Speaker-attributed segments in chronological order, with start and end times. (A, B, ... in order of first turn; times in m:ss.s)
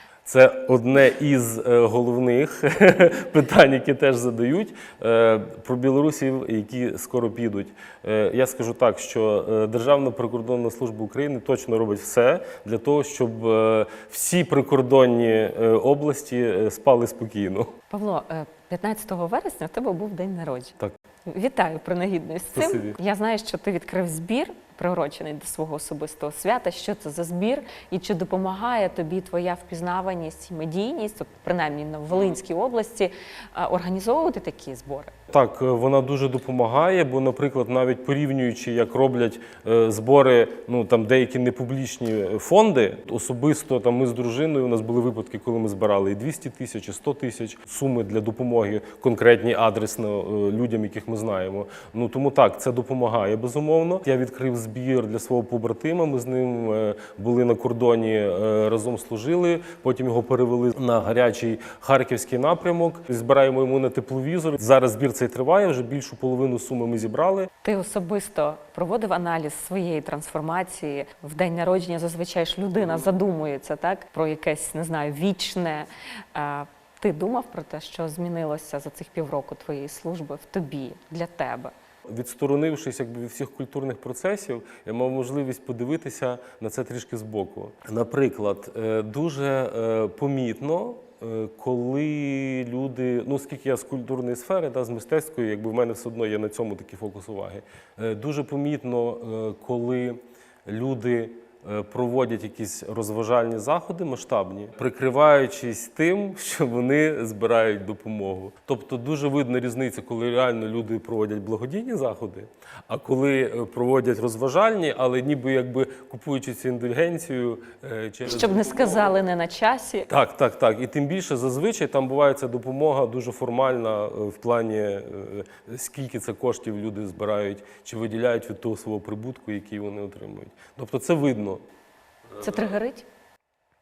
0:00.2-0:17.7 A
0:17.9-0:35.1 B
0:22.5-0:23.0 A
0:35.3-1:07.5 A
1:07.6-1:21.7 B
1:22.1-1:59.1 A
1:58.2-2:00.1 B
2:00.1-2:11.6 A
2:12.4-2:13.1 B